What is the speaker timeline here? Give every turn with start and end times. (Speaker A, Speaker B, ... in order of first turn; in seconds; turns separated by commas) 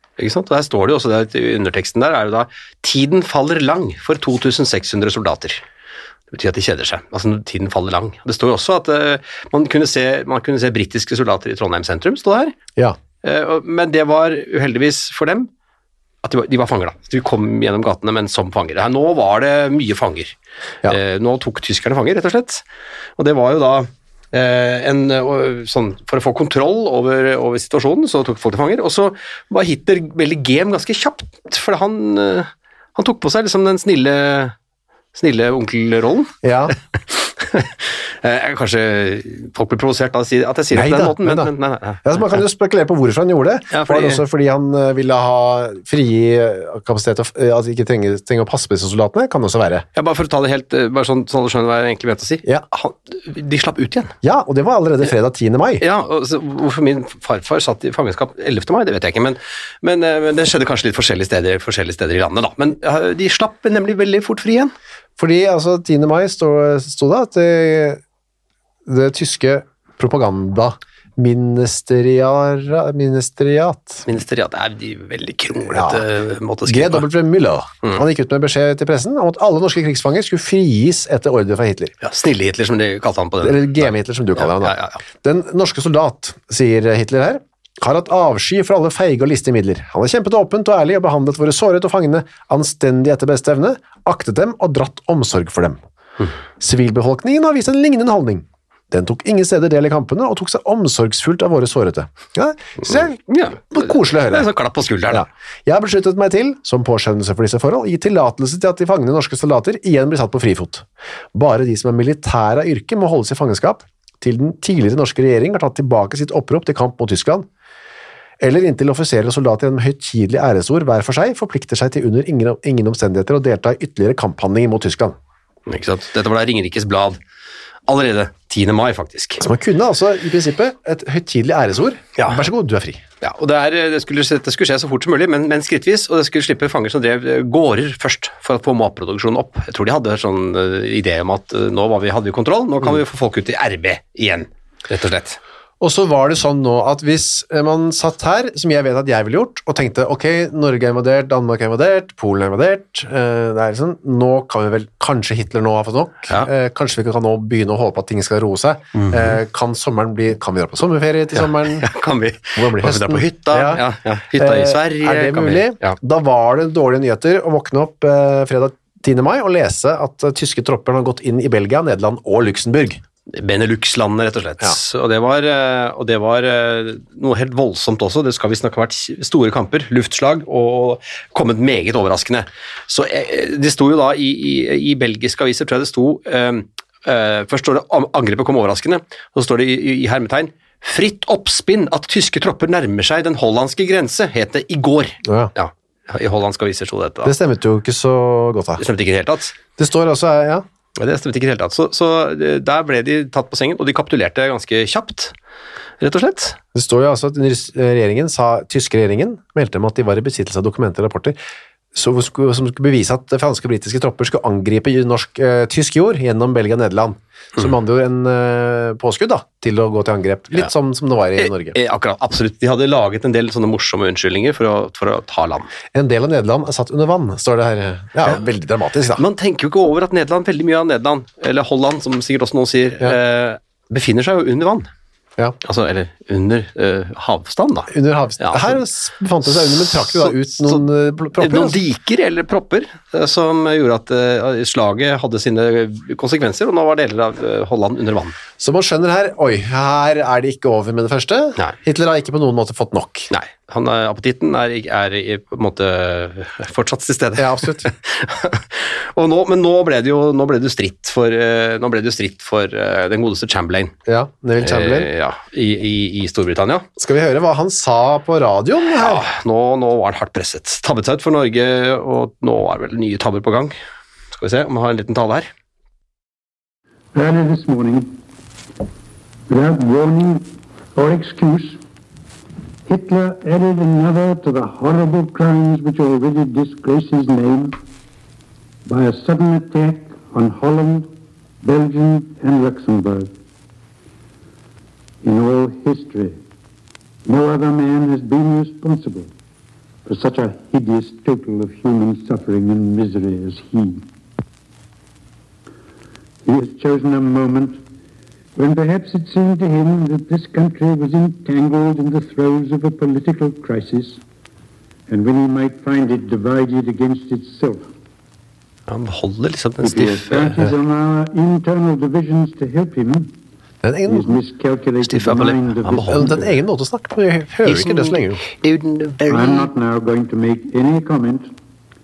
Speaker A: 0.2-5.6, Speaker A: 6.3-12.6, Speaker A: 13.2-15.5, Speaker A: 16.2-20.4, Speaker A: 20.9-22.6, Speaker A: 23.2-34.5, Speaker A: 35.1-36.4, Speaker B: 36.4-36.8, Speaker A: 37.0-42.4, Speaker B: 40.7-41.5, Speaker B: 42.0-49.9, Speaker A: 43.7-44.2, Speaker A: 50.0-54.1, Speaker B: 54.2-55.8, Speaker A: 55.8-64.7, Speaker B: 65.2-68.0, Speaker B: 68.9-74.1, Speaker A: 74.1-77.1, Speaker B: 75.7-76.0, Speaker B: 76.7-82.0, Speaker A: 82.0-85.0, Speaker B: 83.4-95.8, Speaker B: 96.6-104.5, Speaker A: 102.8-105.3, Speaker B: 105.1-117.5, Speaker B: 118.4-125.2, Speaker A: 125.7-127.2, Speaker A: 127.9-129.4, Speaker B: 129.4-133.0, Speaker A: 132.2-132.5, Speaker A: 133.2-145.4, Speaker B: 145.8-161.9, Speaker A: 158.9-159.4, Speaker A: 161.4-166.0, Speaker B: 162.6-163.8, Speaker B: 164.4-173.0, Speaker A: 173.3-197.3, Speaker B: 195.2-195.5, Speaker B: 197.2-198.8, Speaker A: 198.8-199.6, Speaker B: 199.8-200.7, Speaker A: 201.0-205.3, Speaker A: 206.0-206.6, Speaker B: 206.7-211.4, Speaker B: 211.9-221.8, Speaker A: 221.4-225.7, Speaker B: 225.9-229.2, Speaker A: 229.2-234.9, Speaker A: 235.6-238.8, Speaker B: 237.9-241.8, Speaker A: 239.7-240.8, Speaker A: 241.4-248.4, Speaker B: 248.6-253.3, Speaker A: 253.3-263.9, Speaker B: 257.4-257.9, Speaker B: 264.1-265.1, Speaker A: 264.6-266.9, Speaker B: 267.0-269.2, Speaker A: 268.9-273.8, Speaker A: 274.3-275.5, Speaker C: 277.1-278.1, Speaker C: 279.5-281.8, Speaker C: 282.9-287.8, Speaker C: 288.9-291.1, Speaker C: 291.6-293.3, Speaker C: 295.2-296.4, Speaker C: 297.2-299.3, Speaker C: 300.1-304.1, Speaker C: 306.4-307.8, Speaker C: 308.6-314.2, Speaker C: 315.1-317.9, Speaker A: 318.9-320.6, Speaker C: 319.8-323.3, Speaker B: 323.8-324.4, Speaker C: 324.1-326.5, Speaker A: 325.0-326.4, Speaker B: 326.1-328.4, Speaker A: 327.6-329.7, Speaker C: 329.3-331.5